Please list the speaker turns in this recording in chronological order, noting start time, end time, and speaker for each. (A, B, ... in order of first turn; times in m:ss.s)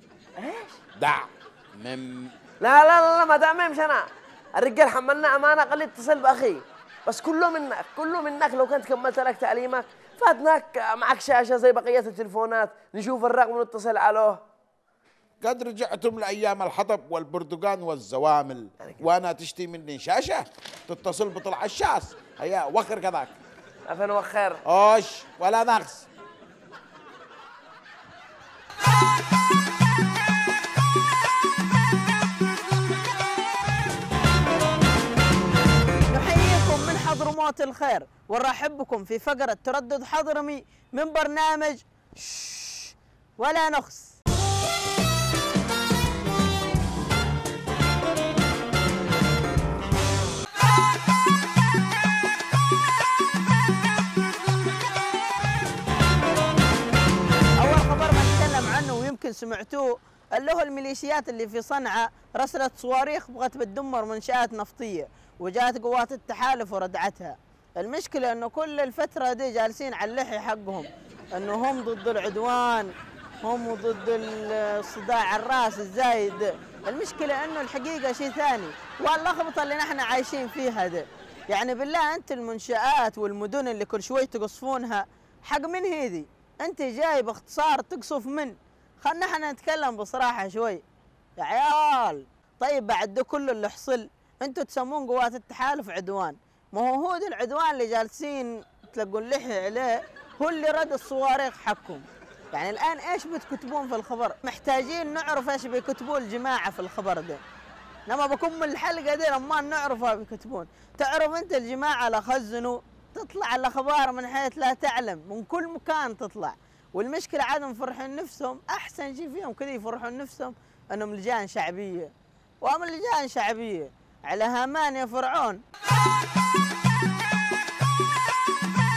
0:00.4-0:00.8 A
0:01.0-0:02.3 B
0:02.6-0:04.0 A
0:04.6-0:14.4 A
0:15.4-0:23.4 B
0:23.9-0:24.6 A
0:24.6-0:26.1 B
0:36.1-0:44.2 C
0:57.6-1:12.9 C
1:13.4-1:30.8 C
1:31.4-1:47.4 C
1:48.1-2:02.1 C
2:02.6-2:05.6 C